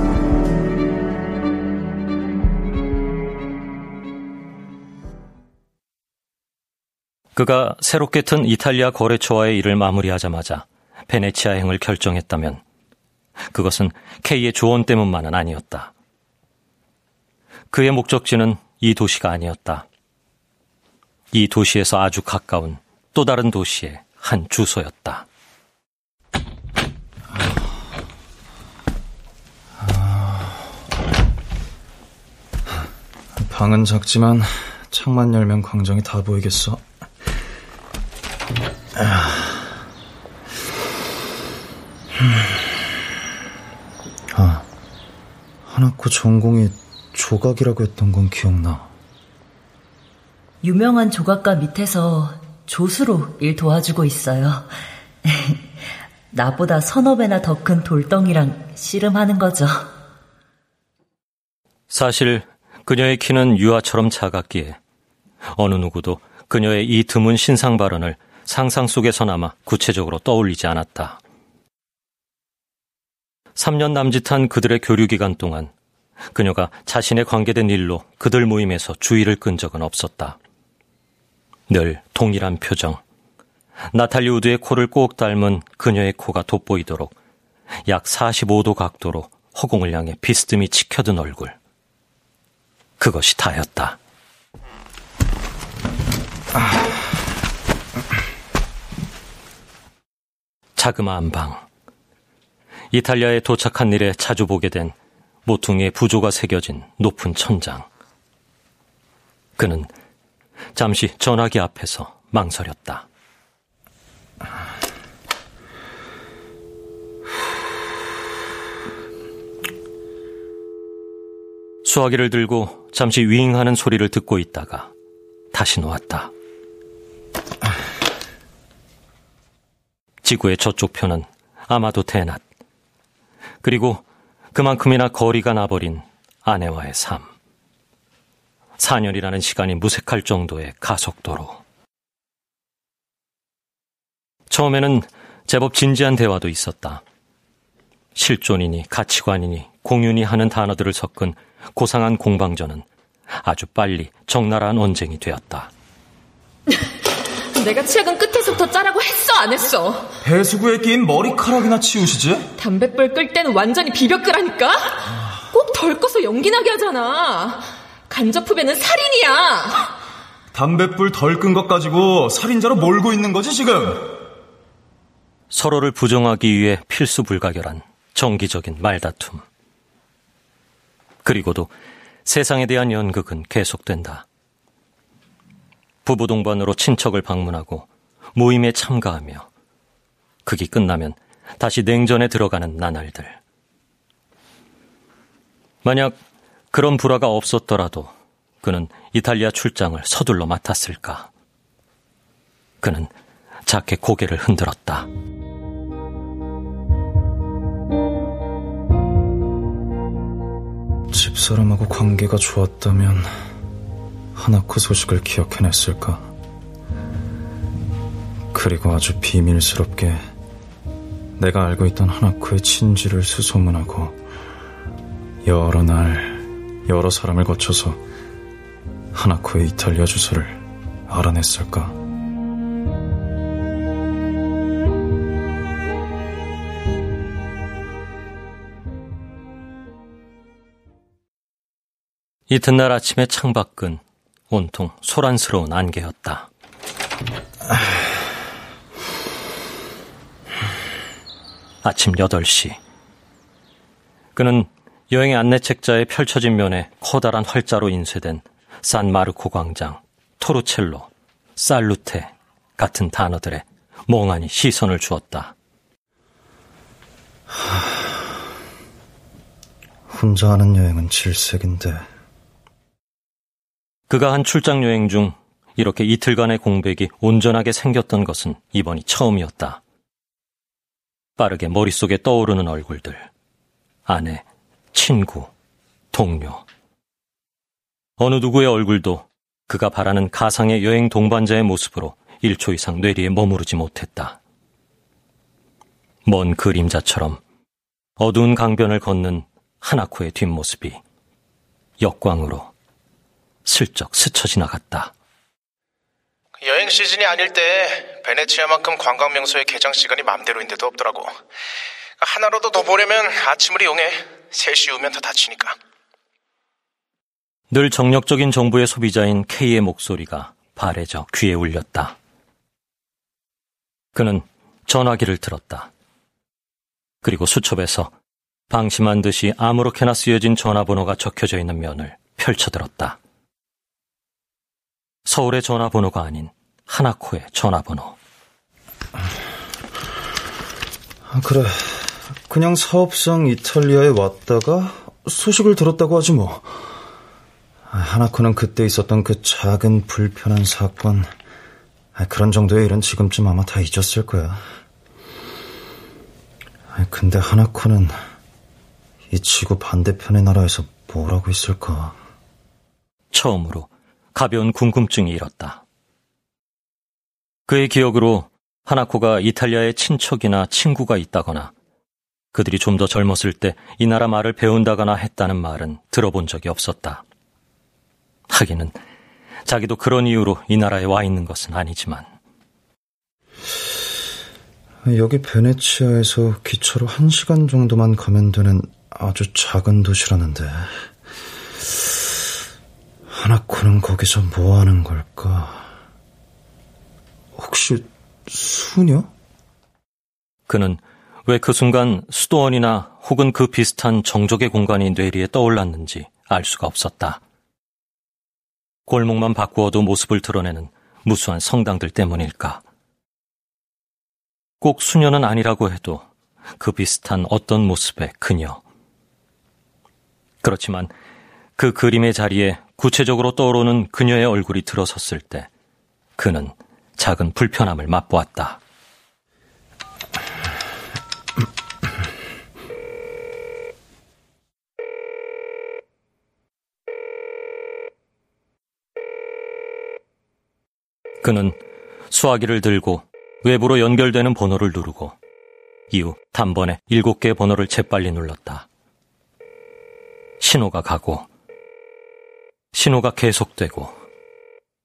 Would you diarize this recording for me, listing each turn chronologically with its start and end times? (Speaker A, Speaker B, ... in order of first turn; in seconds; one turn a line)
Speaker A: 7.3-12.6
Speaker A: 13.5-15.9
Speaker A: 17.7-19.9
Speaker A: 21.3-25.2
Speaker B: 29.8-30.7
Speaker B: 33.3-36.8
Speaker B: 38.9-39.7
Speaker B: 42.2-42.7
Speaker B: 44.3-44.7
Speaker B: 45.6-48.9
Speaker C: 50.6-54.7
Speaker C: 55.2-55.6
Speaker C: 56.3-59.9
Speaker A: 61.9-64.8
Speaker A: 65.5-71.2
Speaker A: 73.5-75.7
Speaker A: 76.3-80.4
Speaker A: 81.7-83.0
Speaker A: 83.9-87.1
Speaker A: 87.9-91.5
Speaker A: 93.0-94.0
Speaker A: 100.8-101.6
Speaker A: 102.9-104.9
Speaker A: 105.5-107.8
Speaker A: 109.6-109.9
Speaker A: 110.7-113.0
Speaker A: 121.8-124.9
Speaker A: 125.5-126.3
Speaker A: 130.2-132.4
Speaker A: 133.6-134.0
Speaker A: 134.5-137.3
Speaker A: 138.8-141.6
Speaker A: 144.5-147.0
Speaker A: 148.2-152.8
Speaker A: 153.4-155.7
Speaker D: 157.5-160.1
Speaker B: 160.2-162.5
Speaker D: 162.6-169.9
Speaker B: 170.5-174.2
Speaker A: 175.5-179.4
Speaker A: 181.2-181.7
Speaker A: 182.2-184.2
Speaker A: 186.0-189.5
Speaker A: 190.4-193.4
Speaker A: 195.8-196.2
Speaker A: 196.7-198.1
Speaker A: 198.6-201.3
Speaker A: 202.8-203.1
Speaker A: 203.7-205.1
Speaker B: 211.1-213.3
Speaker B: 214.3-216.3
Speaker B: 218.5-220.2
Speaker B: 221.4-224.2
Speaker B: 225.4-228.0
Speaker B: 229.1-231.9
Speaker A: 242.5-246.5
Speaker A: 251.8-252.8
Speaker A: 254.3-265.5
Speaker B: 267.5-268.4
Speaker B: 270.1-272.0
Speaker A: 274.1-279.8
Speaker A: 281.4-283.3
Speaker A: 284.1-285.5
Speaker A: 286.1-286.6
Speaker A: 288.2-294.4
Speaker A: 296.2-297.4
Speaker A: 298.2-301.0
Speaker A: 302.0-302.7
Speaker A: 303.6-305.1
Speaker E: 306.6-311.3
Speaker E: 312.2-315.8
Speaker A: 317.7-322.1
Speaker A: 324.1-325.9
Speaker A: 327.2-328.1
Speaker A: 328.7-333.2
Speaker A: 335.2-338.1
Speaker B: 341.2-347.0
Speaker B: 347.9-351.3
Speaker B: 352.1-354.6
Speaker B: 356.9-358.1
Speaker B: 359.3-362.2
Speaker A: 363.3-365.8
Speaker A: 367.7-371.7
Speaker A: 372.5-377.2
Speaker A: 378.5-378.9
Speaker A: 379.6-382.2
Speaker B: 385.0-391.0
Speaker B: 391.9-392.2
Speaker B: 393.3-395.9
Speaker B: 397.5-399.3
Speaker A: 400.7-407.4
Speaker A: 409.1-412.8
Speaker A: 414.8-416.2
Speaker A: 416.8-418.8
Speaker A: 420.6-421.1
Speaker A: 421.8-425.7
Speaker A: 426.4-428.8
Speaker A: 441.4-441.8
Speaker A: 442.3-445.3
Speaker A: 446.1-448.9
Speaker A: 450.6-451.4
Speaker A: 452.9-454.1